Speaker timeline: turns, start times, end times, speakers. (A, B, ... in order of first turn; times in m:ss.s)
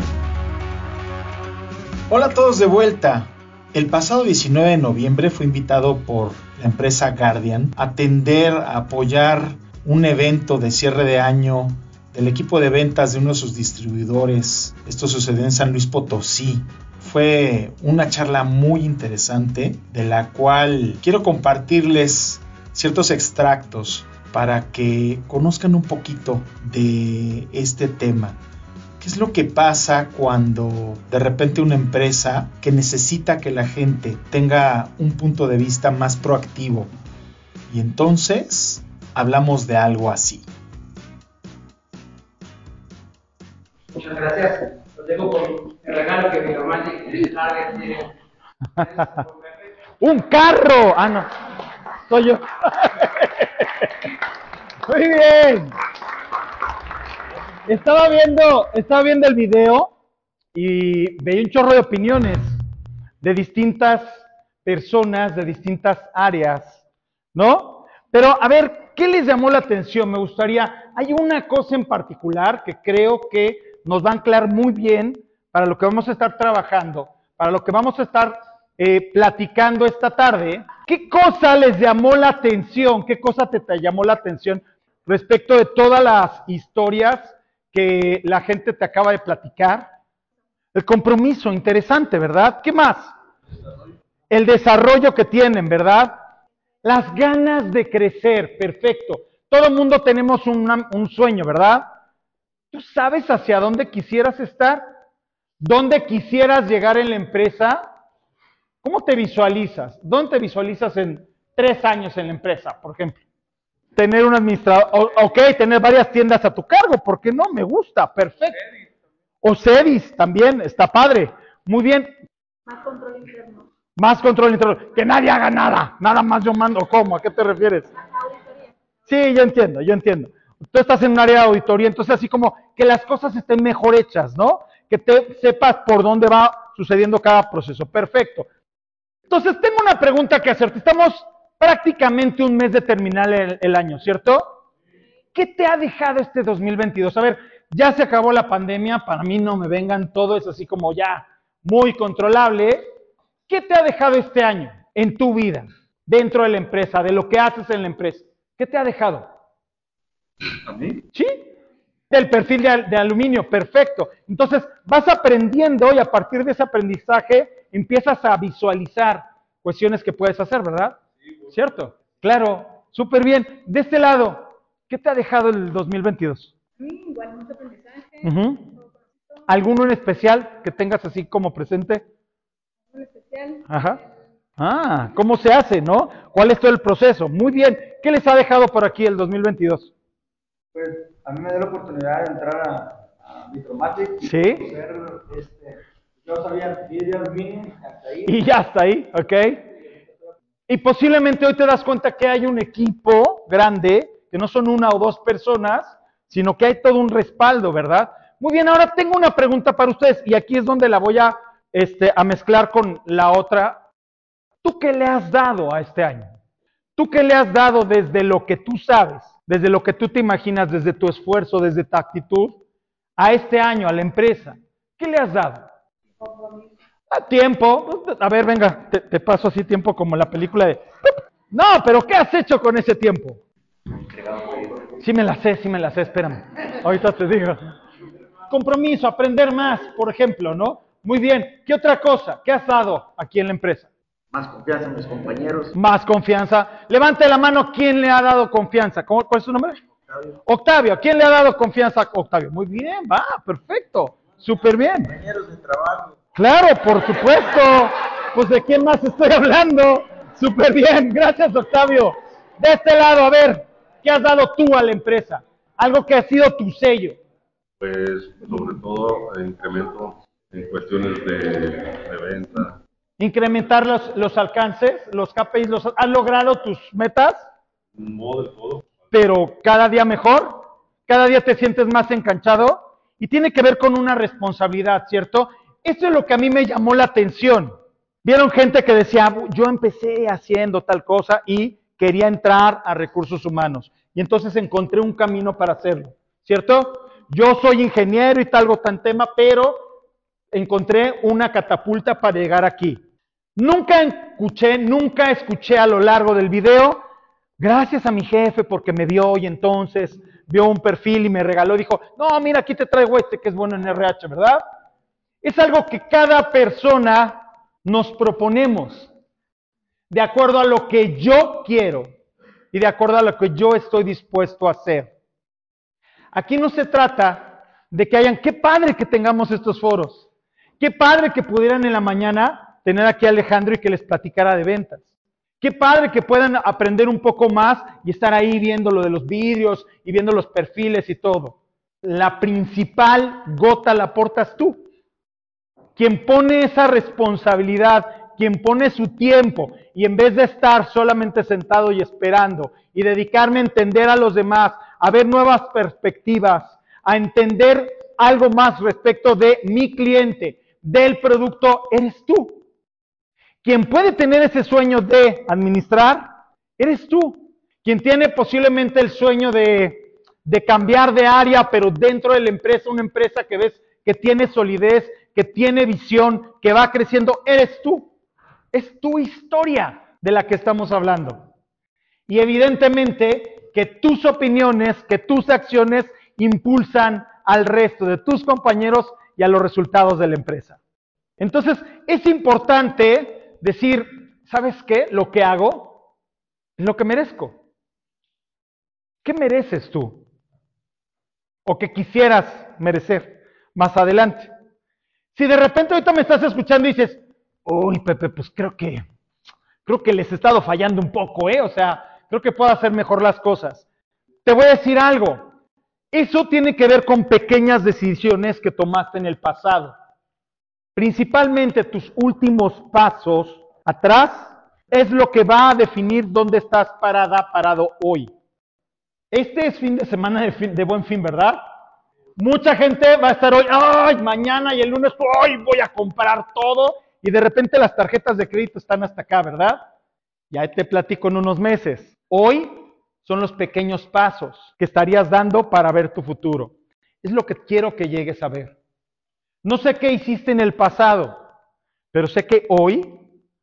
0:02.1-0:28.4 A
0:29.0-0:36.9 A
0:37.7-0:40.5 A
0:43.9-0:48.1 B
0:48.8-0:49.2 C
0:48.8-0:49.3 B
0:50.0-0:51.3 C
0:52.1-0:53.9 C
0:54.8-0:55.7 C
0:57.7-0:59.9 C
1:00.5-1:02.5 C
1:03.2-1:06.8 C
1:07.3-1:29.9 C
1:30.7-1:33.1 C
1:34.3-1:36.2 C
1:36.8-1:41.9 C
1:42.7-1:44.8 C
1:45.6-1:47.9 C
1:48.8-1:53.2 C
1:53.9-1:58.6 C
1:59.4-2:02.2 C
2:02.7-2:03.7 D
2:04.0-2:07.9 C
2:08.2-2:08.6 D
2:09.1-2:18.5 C
2:19.3-2:24.6 C
2:25.3-2:32.8 C
2:33.5-2:39.3 C
2:41.1-2:41.5 C
2:42.1-2:56.5 C
2:56.8-2:58.4 D
2:58.2-2:58.7 C
2:59.5-3:02.1 C
3:02.9-3:03.7 D
3:03.7-3:04.0 C
3:04.6-3:09.9 C
3:10.7-3:18.4 E
3:14.2-3:14.7 C
3:18.2-3:19.7 C
3:20.7-3:33.8 C
3:34.6-3:36.3 C
3:37.0-3:42.6 C
3:43.2-3:45.7 C
3:46.2-3:46.7 D
3:47.1-3:50.8 C
3:51.5-3:53.4 C
3:54.1-3:54.8 E
3:55.0-3:57.6 C
3:58.5-4:03.9 C
4:04.3-4:05.7 E
4:05.7-4:09.8 C
4:10.5-4:15.2 C
4:15.1-4:16.1 E
4:16.3-4:27.2 C
4:27.8-4:32.8 F
4:33.2-4:37.5 C
4:38.0-4:38.9 F
4:39.1-4:47.7 C
4:48.2-4:59.9 C
5:00.5-5:03.0 C
5:03.6-5:07.0 C
5:07.6-5:14.6 C
5:15.4-5:19.1 C
5:20.1-5:22.1 C
5:22.7-5:25.1 C
5:26.3-5:30.2 C
5:30.8-5:35.0 C
5:35.6-5:44.8 C
5:46.0-6:02.6 C
6:03.6-6:18.1 C
6:18.7-6:21.5 C
6:22.3-6:30.8 C
6:31.4-6:36.0 C
6:36.8-6:37.6 C
6:39.2-6:40.2 C
6:41.6-6:44.5 C
6:45.3-6:49.0 C
6:49.8-6:53.8 C
6:54.4-6:55.5 C
6:56.1-6:59.9 C
7:01.0-7:08.3 C
7:09.3-7:11.6 C
7:12.4-7:19.8 C
7:20.5-7:28.7 C
7:29.6-7:31.4 C
7:32.1-7:33.2 C